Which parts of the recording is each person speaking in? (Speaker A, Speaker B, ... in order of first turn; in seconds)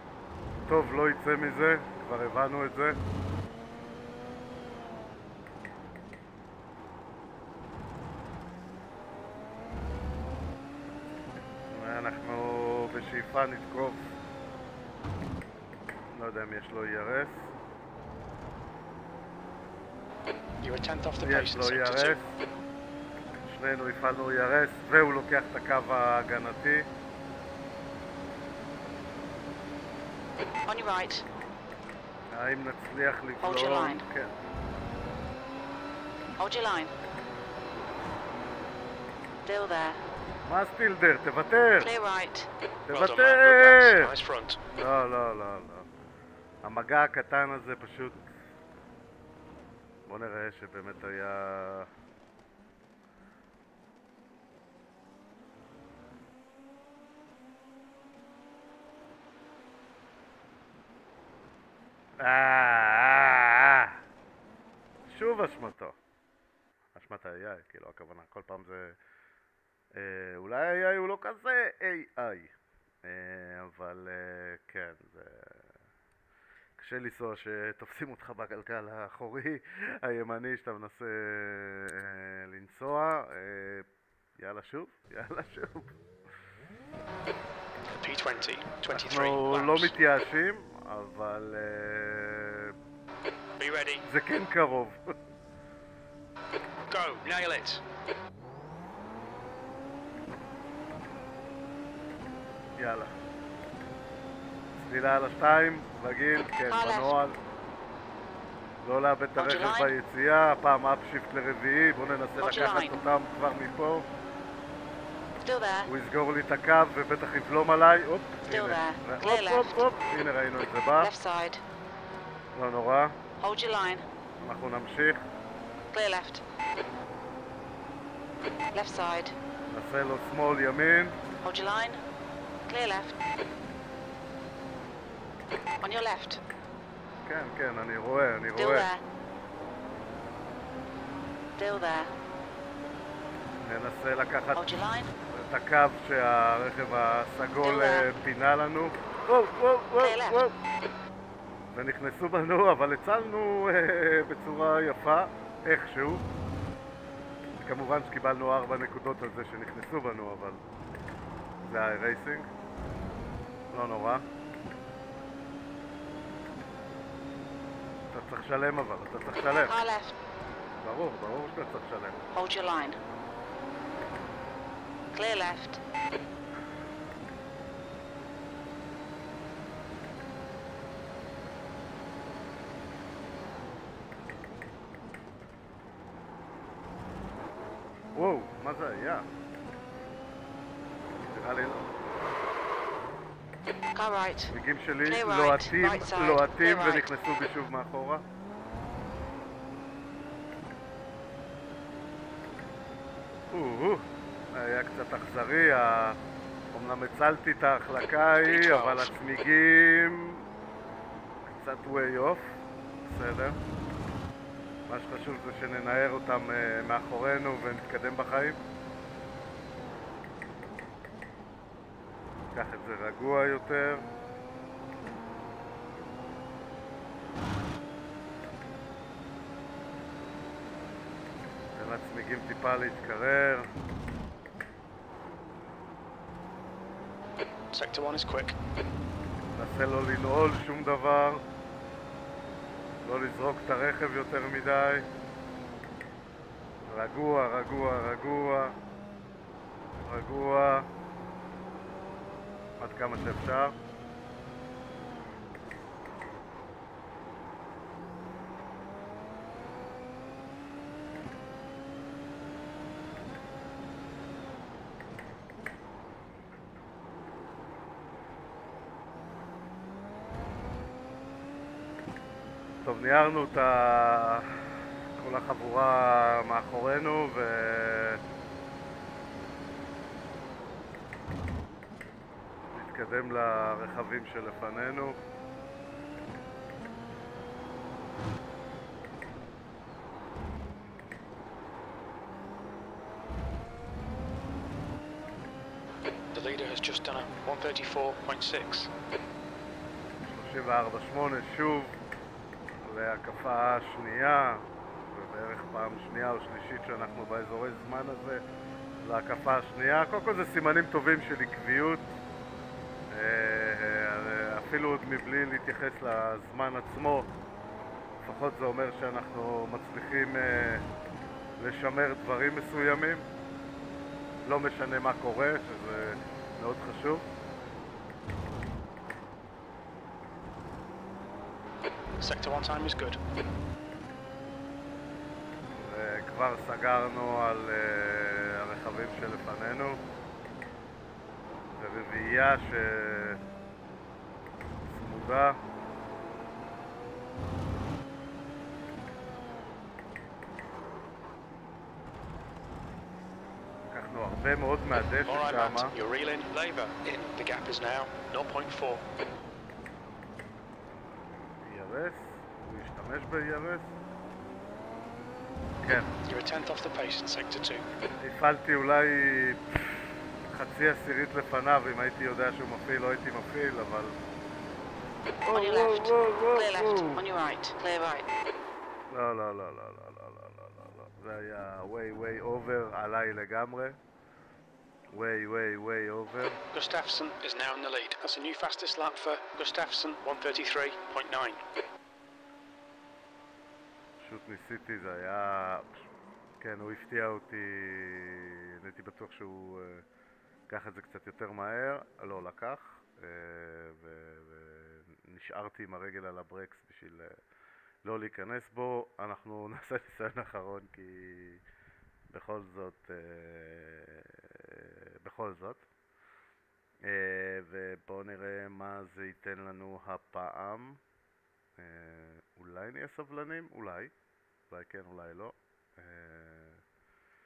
Speaker A: 0.7-3.0, 11.7-14.1, 16.1-17.5, 21.2-22.4, 23.5-26.9, 32.3-34.4, 40.5-41.9, 42.9-44.1, 44.7-45.9, 46.6-48.2, 50.1-51.9, 62.2-64.0, 65.1-66.0, 67.0-69.0, 69.9-72.5, 73.0-75.7, 76.8-83.9, 84.4-85.9, 88.9-92.7, 94.0-95.2, 102.8-103.1, 104.8-107.4, 108.8-114.1, 115.9-121.1, 122.5-123.2, 124.4-125.2, 129.7-131.2, 137.3-138.9, 143.6-144.7, 145.2-150.6, 151.7-156.2, 157.6-160.6, 161.6-162.5, 163.7-164.2, 168.1-169.8, 170.8-172.2, 188.2-189.3, 191.3-191.9, 194.5-198.2, 203.5-206.2, 206.7-210.4, 211.5-213.6, 214.9-218.6, 222.5-224.1, 231.8-233.7, 239.6-241.4, 243.0-245.1, 246.9-248.8, 250.0-250.9, 252.8-253.8, 272.8-278.2, 282.7-285.2, 300.3-302.0, 302.8-308.4, 309.0-312.1, 313.1-317.3, 318.2-320.9, 321.6-323.3, 324.4-327.3, 335.8-340.0, 341.8-343.4, 344.9-345.6, 353.9-355.9, 361.6-363.9, 365.8-366.1, 368.2-374.2, 375.4-377.2, 379.1-384.0, 385.1-386.6, 394.2-396.0, 396.6-400.1, 400.7-407.4, 408.1-411.6, 412.3-415.8, 417.0-421.0, 421.8-424.1, 424.7-426.8
Speaker B: 20.6-22.2, 42.9-44.6, 88.0-89.9, 93.6-94.0, 96.9-97.8, 208.3-209.2, 237.7-238.6, 296.3-298.9, 332.2-333.2, 355.3-359.0, 366.2-367.9, 386.7-391.6
Speaker C: 30.7-31.3, 33.4-34.0, 36.4-36.9, 39.4-40.0, 41.8-42.5, 106.7-107.2, 109.4-109.9, 112.4-113.0, 115.4-115.9, 118.5-119.8, 121.0-121.6, 123.4-124.0, 125.9-126.4, 128.7-129.4, 131.4-132.0, 132.7-133.2, 135.8-136.4, 138.6-139.0, 141.6-142.1, 144.6-145.1, 147.6-148.1, 150.0-150.5, 169.7-170.2, 172.3-173.0, 175.1-175.8, 193.9-194.5, 195.0-197.1, 375.5-378.3